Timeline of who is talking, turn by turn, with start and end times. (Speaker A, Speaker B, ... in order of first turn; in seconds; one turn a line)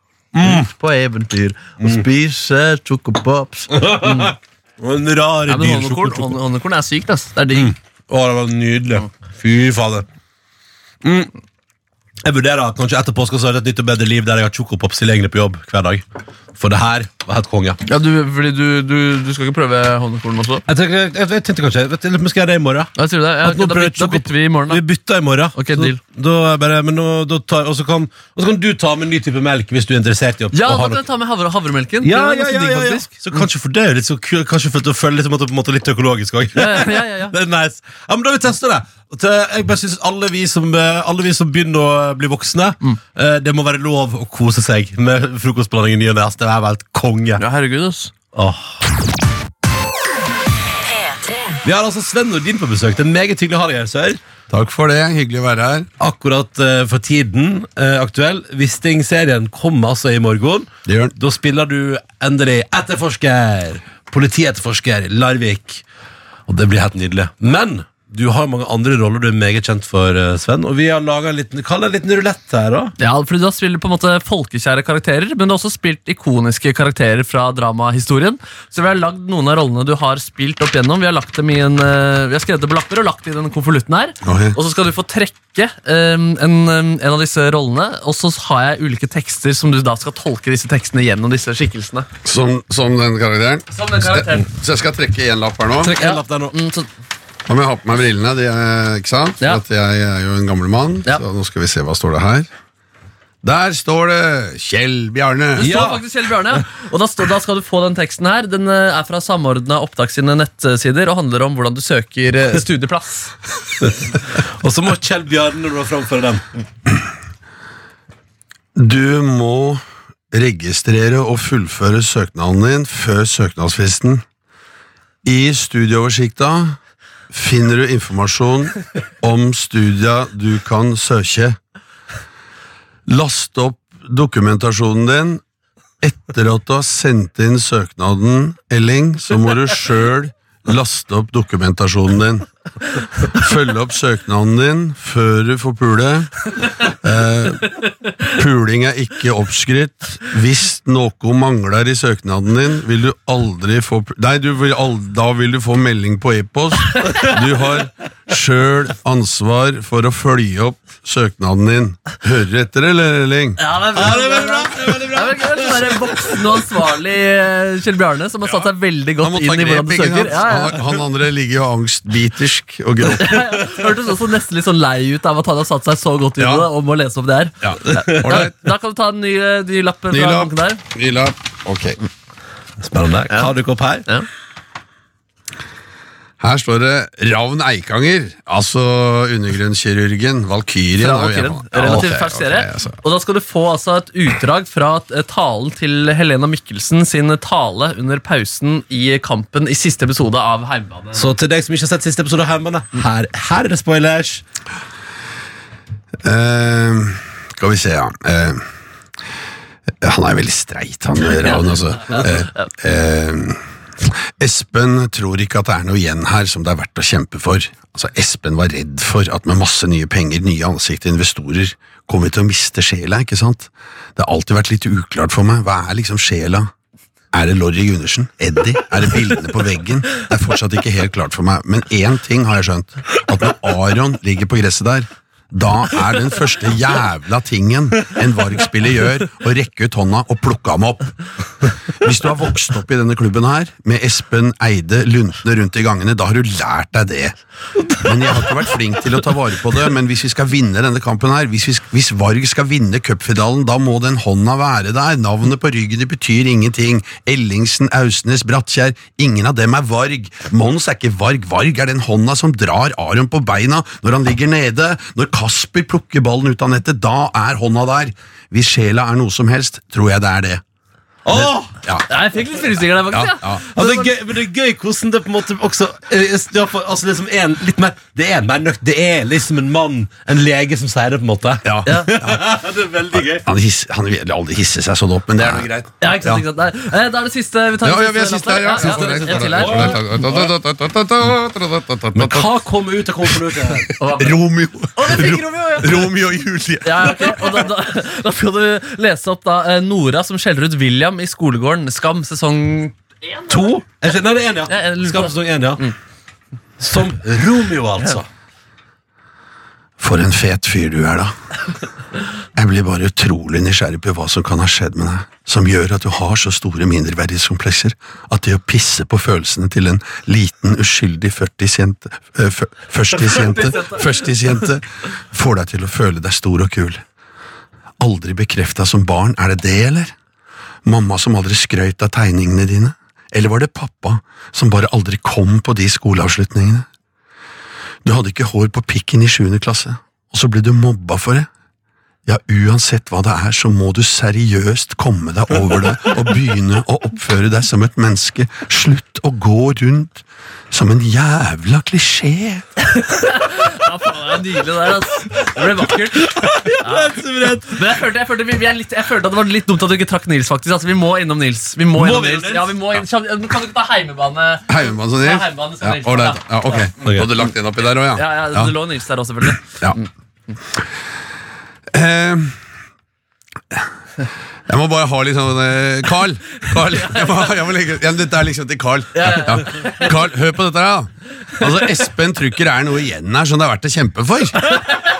Speaker A: 0.3-0.7
Speaker B: 0.4-4.3
Speaker A: 1.8-2.0
Speaker A: 3.7-6.4
Speaker B: 5.5-7.7
Speaker A: 7.5-10.1
Speaker A: 11.0-11.3
Speaker A: 12.2-17.8
Speaker B: 17.9-20.6
Speaker A: 20.7-31.0
Speaker B: 22.9-24.8
Speaker B: 25.5-26.0
Speaker B: 30.5-33.4
Speaker A: 32.0-47.4
Speaker B: 36.5-37.3
Speaker B: 47.4-48.1
Speaker A: 48.3-48.8
Speaker A: 51.6-54.2
Speaker C: 54.5-55.9
Speaker A: 56.0-65.8
Speaker C: 60.9-61.1
Speaker A: 66.5-72.9
Speaker B: 73.0-92.1
Speaker C: 84.2-84.5
Speaker C: 92.2-95.9
Speaker B: 93.7-94.5
Speaker A: 95.8-96.5
Speaker B: 96.0-96.9
Speaker C: 97.5-102.5
Speaker C: 103.4-105.9
Speaker B: 105.6-113.3
Speaker A: 105.6-106.0
Speaker A: 113.8-116.4
Speaker C: 118.8-124.2
Speaker C: 125.2-126.8
Speaker C: 127.3-131.6
Speaker C: 133.1-135.4
Speaker C: 136.0-142.5
Speaker C: 143.2-163.6
Speaker B: 163.6-170.8
Speaker A: 163.9-166.6
Speaker C: 169.2-173.8
Speaker B: 173.2-180.8
Speaker C: 176.4-176.7
Speaker C: 177.6-178.5
Speaker A: 177.8-178.5
Speaker C: 180.1-182.0
Speaker A: 182.8-184.1
Speaker C: 186.4-193.0
Speaker B: 191.0-201.3
Speaker A: 201.1-204.4
Speaker C: 206.2-208.6
Speaker C: 210.0-226.7
Speaker C: 227.3-241.1
Speaker C: 242.0-247.3
Speaker C: 247.9-270.6
Speaker A: 271.2-271.7
Speaker C: 271.3-272.1
Speaker B: 272.1-274.1
Speaker C: 273.1-273.6
Speaker A: 273.7-283.5
Speaker C: 281.6-282.5
Speaker B: 281.9-282.1
Speaker C: 283.2-286.4
Speaker A: 285.4-285.7
Speaker B: 286.0-290.0
Speaker C: 287.8-292.5
Speaker A: 288.7-290.5
Speaker A: 292.1-293.9
Speaker C: 293.7-297.7
Speaker B: 294.0-294.4
Speaker B: 294.9-296.1
Speaker B: 296.8-303.8
Speaker A: 303.5-305.8
Speaker B: 304.7-305.9
Speaker A: 306.8-308.3
Speaker C: 310.0-311.3
Speaker C: 312.5-327.0
Speaker B: 323.2-324.0
Speaker C: 328.0-330.1
Speaker C: 330.8-336.9
Speaker C: 338.0-341.5
Speaker C: 342.2-352.6
Speaker B: 352.9-366.9
Speaker A: 356.2-357.9
Speaker A: 361.9-362.8
Speaker C: 364.7-368.7
Speaker A: 367.0-367.3
Speaker B: 368.1-370.1
Speaker C: 369.6-370.0
Speaker C: 371.9-372.6
Speaker C: 374.7-385.0
Speaker B: 379.1-380.1